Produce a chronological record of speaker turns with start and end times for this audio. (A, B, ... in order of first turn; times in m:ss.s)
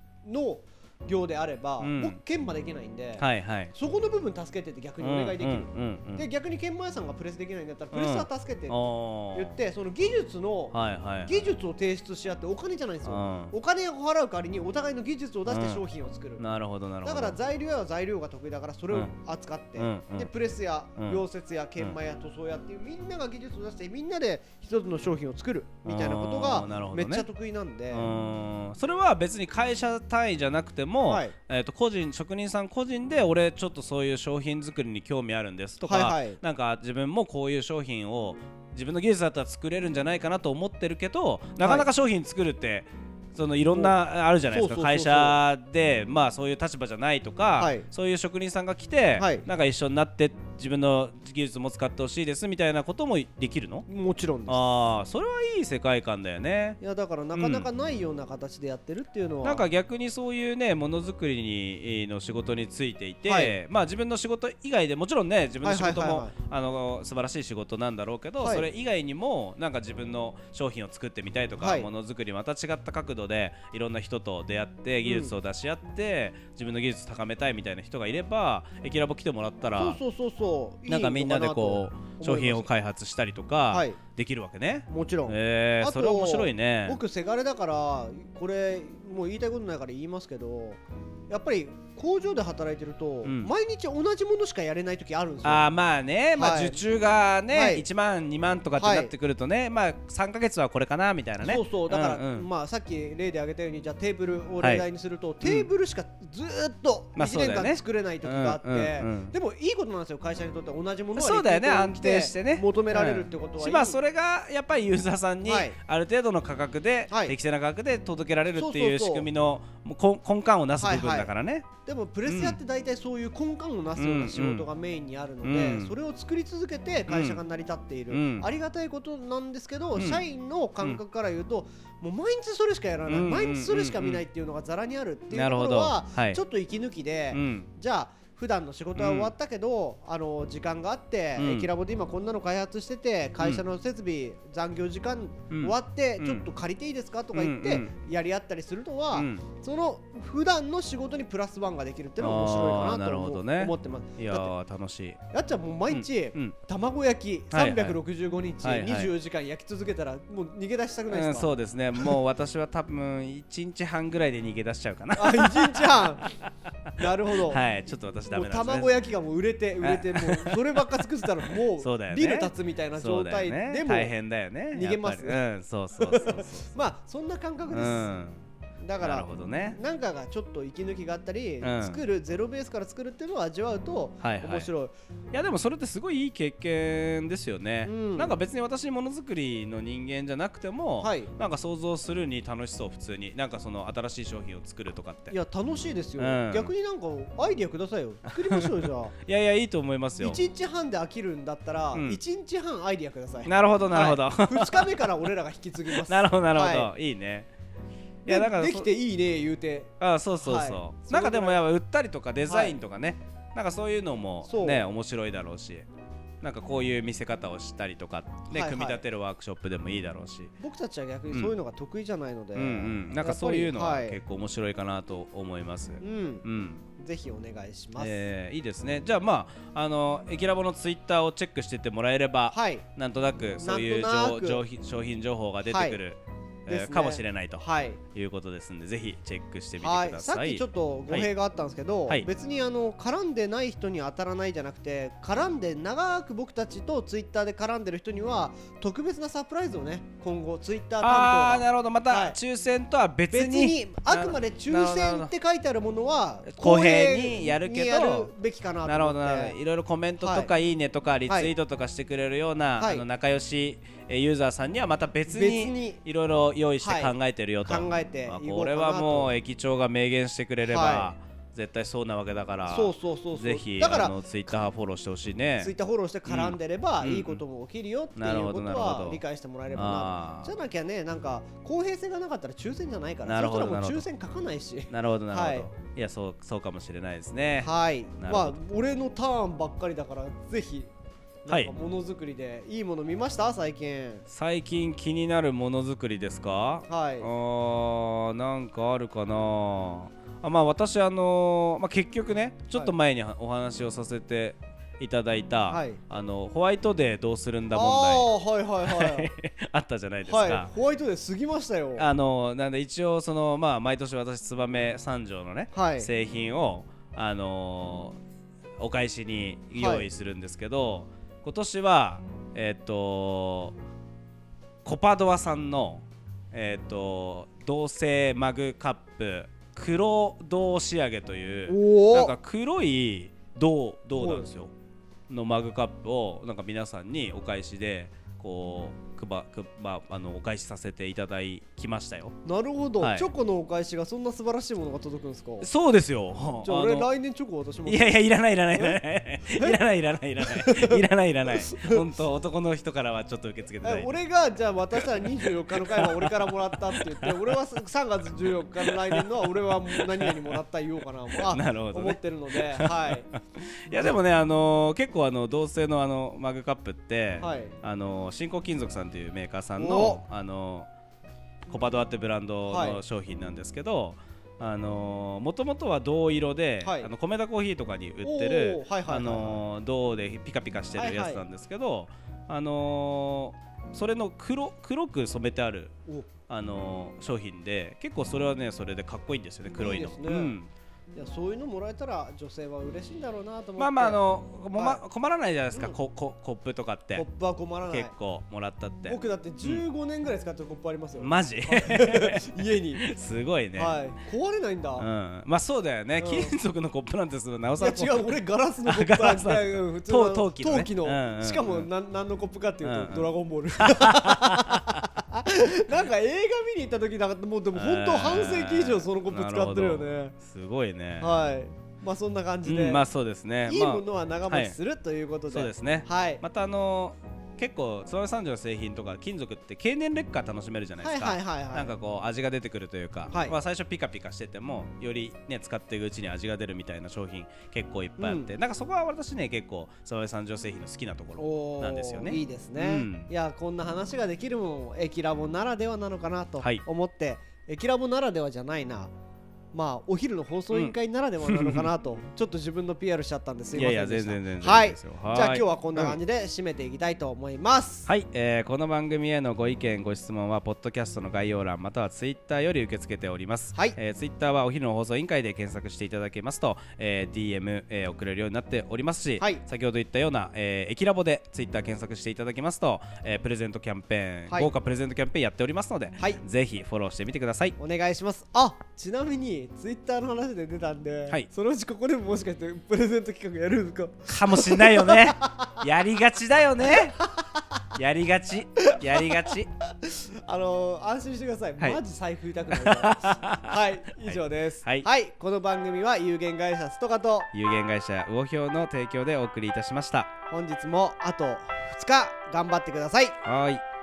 0:00.2-0:16.4 A
0:01.8-0:02.2 B
0:03.2-0:03.7 B
0:05.0-0:06.2 B
0:07.9-0:09.6 B
0:10.7-0:11.4 B
0:13.0-0:13.5 B
0:15.5-0:15.8 B
0:16.4-0:17.4 B
0:17.0-0:28.1 A
0:19.8-0:20.3 B
0:21.0-0:21.2 B
0:25.8-0:27.2 B
0:27.9-0:53.8 B
0:31.1-0:31.3 A
0:35.8-0:36.4 A
0:41.6-0:41.8 A
0:44.5-0:45.4 A
0:47.6-0:47.9 A
0:49.2-0:49.4 A
0:53.9-0:54.6 A
0:54.5-0:56.8 B
0:56.8-0:59.6 A
0:57.3-0:57.7 B
0:59.4-1:20.0 B
1:03.2-1:03.6 A
1:05.6-1:06.3 A
1:08.4-1:08.7 A
1:11.6-1:11.9 A
1:15.0-1:15.3 A
1:19.7-1:22.7 A
1:20.8-1:27.0 B
1:23.7-1:24.0 A
1:24.9-1:35.7 A
1:33.2-1:33.5 B
1:35.4-1:42.5 B
1:36.3-1:36.8 A
1:37.5-1:37.8 A
1:38.8-1:39.1 A
1:41.4-1:54.0 A
1:44.6-1:44.8 B
1:45.4-1:45.7 B
1:47.2-1:49.3 B
1:51.1-2:01.7 B
1:55.4-1:55.8 A
1:57.1-1:57.3 A
1:58.5-1:59.3 A
2:00.8-2:01.3 A
2:01.8-2:34.5 A
2:02.2-2:02.6 B
2:04.0-2:04.7 B
2:05.4-2:05.9 B
2:07.1-2:07.4 B
2:08.1-2:08.5 B
2:09.9-2:10.2 B
2:13.0-2:14.2 B
2:15.3-2:16.4 B
2:17.3-2:17.7 B
2:19.0-2:19.3 B
2:21.4-2:21.7 B
2:25.5-2:26.4 B
2:27.3-2:27.9 B
2:29.1-2:29.4 B
2:32.2-2:35.2 B
2:35.3-2:42.2 A
2:35.9-2:36.6 B
2:37.5-2:38.0 B
2:38.6-2:39.1 B
2:41.1-2:46.5 B
2:45.2-2:46.2 A
2:47.0-2:47.6 A
2:47.5-2:48.9 B
2:48.3-2:54.1 A
2:49.8-2:50.8 B
2:51.8-2:56.7 B
2:54.7-2:55.4 A
2:56.0-2:58.1 A
2:57.7-2:58.4 B
2:58.8-3:04.9 A
2:59.0-2:59.8 B
3:01.6-3:02.0 B
3:04.2-3:04.7 B
3:05.3-3:15.3 B
3:07.8-3:08.4 A
3:11.0-3:11.3 A
3:15.3-3:19.1 A
3:16.2-3:16.7 B
3:18.3-3:20.4 B
3:20.2-3:26.9 A
3:21.9-3:22.2 B
3:23.4-3:25.1 B
3:25.9-3:27.5 B
3:28.2-3:28.9 B
3:28.2-3:31.6 A
3:30.0-3:35.8 B
3:32.4-3:32.8 A
3:34.4-3:34.8 A
3:36.4-3:40.5 B
3:38.5-3:39.0 A
3:40.6-3:44.2 A
3:42.5-3:46.8 B
3:46.0-3:46.4 A
3:47.0-3:48.2 A
3:48.0-4:01.3 B
3:52.5-3:52.8 A
3:53.6-3:54.6 A
3:55.7-3:56.0 A
3:56.7-3:58.0 A
3:59.8-4:12.4 A
4:11.0-4:15.3 B
4:13.3-4:19.6 A
4:16.5-4:18.3 B
4:18.8-4:35.7 B
4:20.2-4:20.5 A
4:21.3-4:21.5 A
4:22.8-4:23.0 A
4:25.2-4:26.0 A
4:26.8-4:29.3 A
4:30.6-4:31.1 A
4:32.7-4:34.2 A
4:35.6-4:45.7 A
4:36.3-4:37.4 B
4:38.2-4:39.2 B
4:39.7-4:40.5 B
4:43.2-4:44.0 B
4:44.9-4:48.6 B
4:47.6-4:50.9 A
4:51.4-4:54.2 A
4:54.3-5:08.3 B
4:56.9-4:57.3 A
5:05.7-5:06.0 A
5:07.7-5:09.3 A
5:08.8-5:10.7 B
5:10.2-5:12.1 A
5:12.0-5:18.2 B
5:15.7-5:16.1 A
5:18.8-5:23.7 B
5:19.8-5:20.0 A
5:24.8-5:34.7 B
5:31.7-5:32.3 A
5:34.1-5:34.5 A
5:35.3-5:42.3 B
5:42.4-5:45.7 A
5:43.0-5:43.3 B
5:45.6-5:47.1 B
5:46.6-5:49.8 A
5:47.8-5:54.1 B
5:50.4-5:52.0 A
5:53.8-6:03.3 A
5:55.0-5:57.6 B
5:58.8-6:00.6 B
6:01.4-6:10.9 B
6:03.9-6:04.2 A
6:07.4-6:07.8 A
6:09.8-6:10.2 A
6:11.7-6:25.9 B
6:12.7-6:13.0 A
6:16.8-6:17.1 A
6:18.2-6:19.6 A
6:21.0-6:21.4 A
6:26.5-6:30.7 B
6:29.8-6:30.5 A
6:31.1-6:34.2 A
6:33.8-6:37.3 B
6:34.7-6:35.0 A
6:37.1-6:38.1 A
6:37.9-6:39.8 B
6:39.0-6:43.1 A
6:41.2-6:44.0 B
6:43.8-6:45.1 A
6:45.0-6:51.9 B
6:46.2-6:46.5 A
6:47.8-7:00.3 A
6:52.8-6:55.0 B
6:57.7-7:01.3 B
7:01.2-7:03.0 A
7:02.6-7:04.7 B
7:03.6-7:06.4 A
7:05.5-7:23.3 B
7:11.0-7:11.9 A
7:13.3-7:13.5 A
7:18.2-7:18.5 A
7:21.4-7:29.1 A
7:29.7-7:38.1 A
7:30.7-7:31.9 B
7:33.7-7:36.2 B
7:38.1-7:57.8 B
7:57.8-8:05.8 A
8:04.3-8:07.2 B
8:06.9-8:07.6 A
8:07.9-8:09.7 B
8:08.9-8:09.3 A
8:10.0-8:17.5 A
8:12.7-8:15.1 B
8:17.5-8:20.3 B
8:20.5-8:23.4 A
8:23.4-8:23.8 B